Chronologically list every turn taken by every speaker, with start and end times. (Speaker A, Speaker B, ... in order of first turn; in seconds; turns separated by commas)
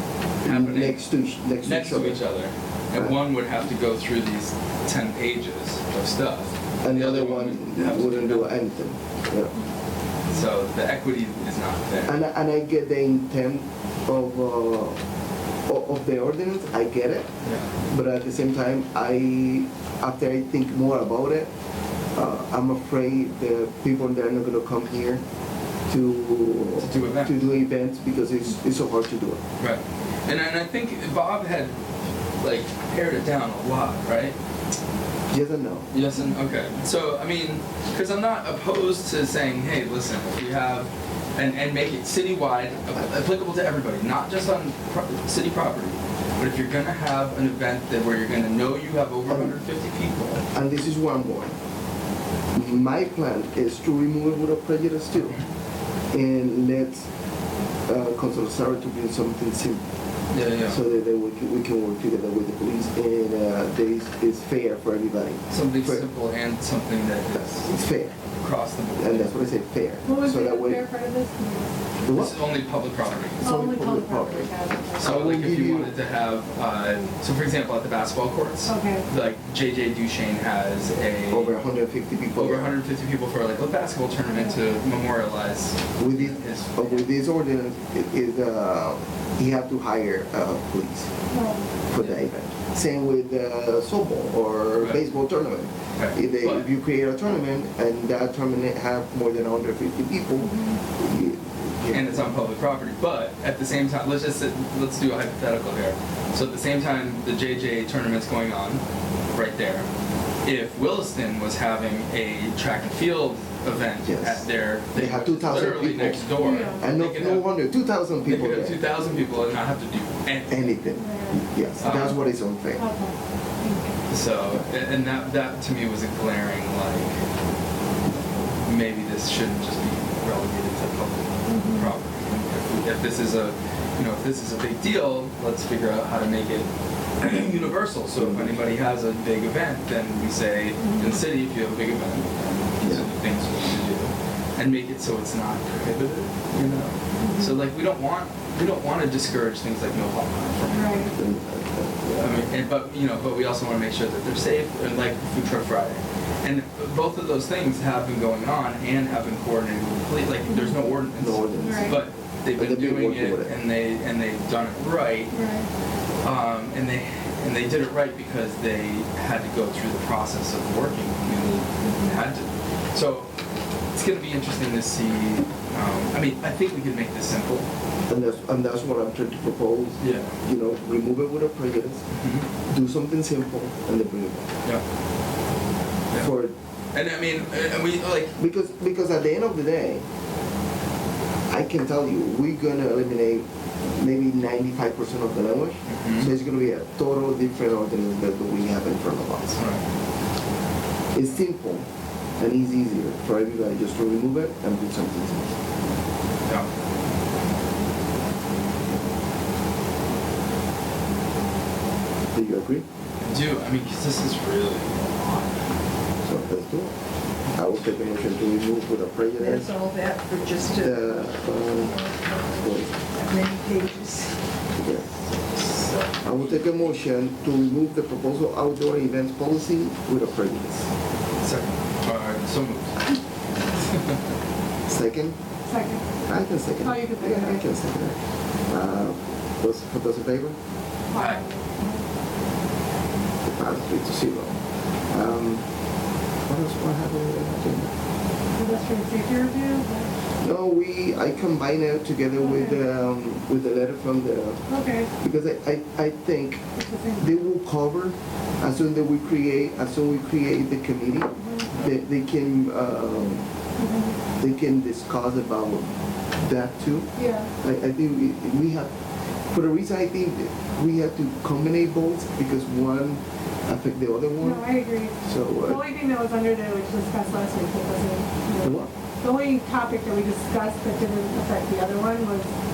Speaker A: 0.4-1.0, Speaker B: 0.4-2.2, Speaker A: 1.6-8.5, Speaker B: 6.8-9.5, Speaker A: 10.3-12.2, Speaker B: 12.1-15.0, Speaker B: 15.7-17.3, Speaker A: 17.4-17.7, Speaker B: 17.9-21.5, Speaker B: 22.1-25.2, Speaker B: 25.9-29.4, Speaker A: 26.8-27.3, Speaker A: 29.6-31.8, Speaker A: 32.4-34.4, Speaker B: 35.3-35.9, Speaker A: 35.9-50.5, Speaker B: 50.5-51.5, Speaker B: 52.5-55.4, Speaker A: 55.2-55.5, Speaker B: 56.1-57.1, Speaker B: 57.9-59.8, Speaker A: 60.3-60.8, Speaker B: 60.7-66.1, Speaker A: 65.5-69.3, Speaker B: 67.3-68.2, Speaker B: 69.0-70.8, Speaker C: 70.0-71.8, Speaker B: 72.0-72.4, Speaker A: 72.1-73.5, Speaker C: 73.4-75.2, Speaker B: 73.4-76.0, Speaker A: 75.0-81.5, Speaker C: 78.7-79.1, Speaker B: 81.3-82.8, Speaker A: 82.4-87.1, Speaker B: 86.0-91.1, Speaker C: 91.3-91.7, Speaker B: 91.9-102.3, Speaker A: 92.0-92.2, Speaker A: 96.0-96.7, Speaker C: 100.4-100.8, Speaker A: 101.9-109.9, Speaker A: 110.5-117.5, Speaker B: 114.0-119.5, Speaker C: 116.4-116.9, Speaker A: 118.2-120.8, Speaker B: 120.5-122.8, Speaker C: 121.0-123.9, Speaker A: 121.8-122.2, Speaker A: 124.1-127.2, Speaker A: 128.4-151.2, Speaker C: 131.5-131.9, Speaker B: 138.2-138.6, Speaker C: 140.8-141.1, Speaker C: 147.2-147.6, Speaker C: 150.7-151.1, Speaker B: 151.1-152.2, Speaker A: 152.1-165.4, Speaker C: 160.5-160.8, Speaker B: 161.2-163.6, Speaker C: 161.6-162.0, Speaker C: 165.3-165.7, Speaker A: 166.2-173.3, Speaker C: 171.8-172.2, Speaker A: 173.9-177.7, Speaker B: 178.1-182.0, Speaker A: 180.0-180.4, Speaker A: 182.1-182.5, Speaker B: 182.7-184.4, Speaker B: 186.2-186.5, Speaker A: 186.9-188.3, Speaker B: 188.4-190.0, Speaker B: 191.5-199.6, Speaker A: 195.9-196.3, Speaker A: 199.6-199.8, Speaker B: 201.2-201.8, Speaker B: 202.4-205.5, Speaker B: 212.3-212.8, Speaker A: 213.2-215.7, Speaker B: 216.2-216.9, Speaker A: 217.4-218.1, Speaker B: 217.6-219.8, Speaker D: 219.4-224.4, Speaker B: 220.7-222.0, Speaker B: 222.6-222.9, Speaker B: 224.8-225.1, Speaker A: 225.3-226.6, Speaker B: 226.2-230.9, Speaker A: 231.4-233.0, Speaker B: 234.9-235.3, Speaker C: 235.7-236.0, Speaker B: 236.3-240.6, Speaker C: 236.8-237.6, Speaker C: 241.1-242.1, Speaker A: 241.2-241.4, Speaker B: 243.4-245.6, Speaker B: 246.5-247.9, Speaker C: 248.6-250.2, Speaker B: 250.4-254.6, Speaker C: 252.4-252.8, Speaker C: 254.7-255.1, Speaker B: 255.2-256.6, Speaker C: 256.8-257.3, Speaker B: 257.2-263.5, Speaker C: 261.4-261.7, Speaker C: 263.8-264.2, Speaker B: 264.4-267.1, Speaker C: 267.2-267.5, Speaker B: 267.6-268.9, Speaker B: 269.5-274.6, Speaker C: 274.4-282.5, Speaker B: 275.2-275.8, Speaker B: 278.6-278.9